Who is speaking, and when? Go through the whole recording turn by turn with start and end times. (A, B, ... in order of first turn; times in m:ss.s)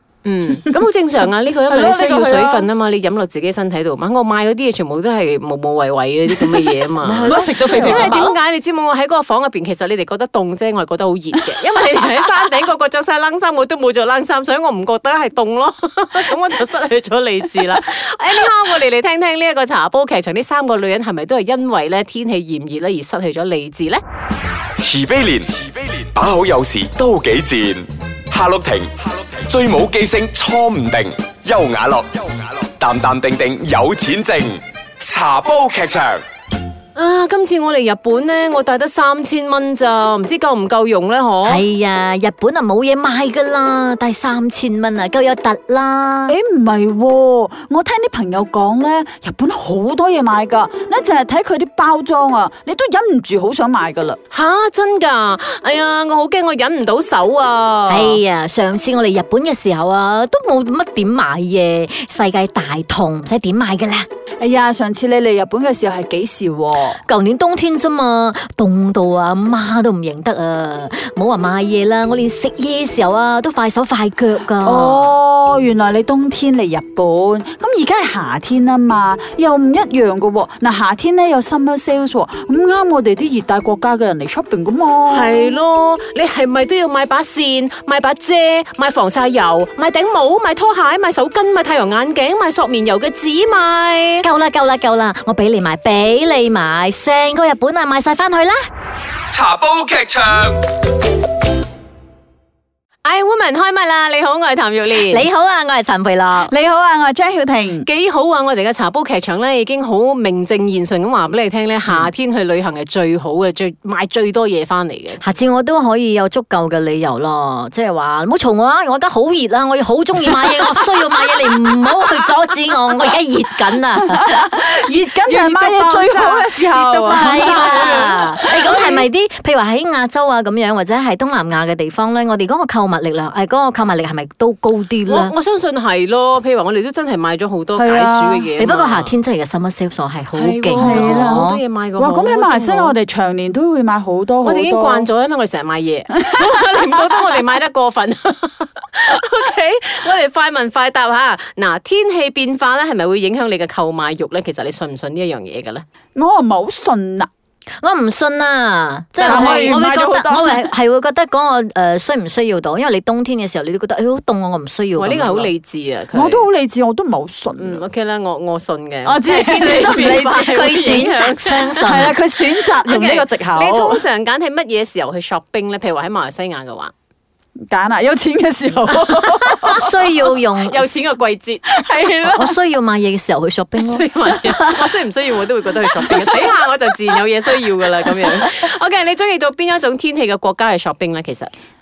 0:00.2-0:24.0 A
0:01.7-0:02.7 B
0:07.0-0:08.3 B
0:07.9-0:08.2 C
0:24.8-0:36.2 D
0:37.0-0:41.6 A
0:41.4-0:46.4 C
0:46.3-0:54.2 B
0:54.3-0:58.2 A
0:57.9-1:04.1 C
1:04.4-1:07.0 B
1:07.0-1:15.1 C
1:14.6-1:25.3 B
1:25.1-1:34.2 A
1:34.2-1:38.6 C
1:39.3-1:40.6 D
1:43.0-1:45.2 A
1:45.0-1:46.5 C
1:46.4-1:47.9 B
1:47.8-1:55.2 A
1:55.2-2:04.6 C
2:04.2-2:09.0 B
2:05.2-2:09.0 A
2:07.1-2:15.3 C
2:15.1-2:19.1 A
2:17.8-2:18.4 B
2:18.6-2:21.6 C
2:20.3-2:22.9 A
2:20.8-2:25.1 B
2:24.4-2:35.8 A
2:36.1-2:37.3 B
2:37.8-2:45.5 C
2:39.2-2:39.7 A
2:39.2-2:40.7 B
2:45.0-2:46.4 A
2:46.1-2:47.8 B
2:47.6-2:56.9 A
2:49.0-2:50.9 B
2:50.4-2:52.1 C
2:51.8-2:54.0 B
2:57.7-2:59.9 B
2:58.9-3:01.8 A
2:59.7-3:01.0 C
3:01.7-3:02.6 B
3:02.2-3:04.8 C
3:03.8-3:11.5 A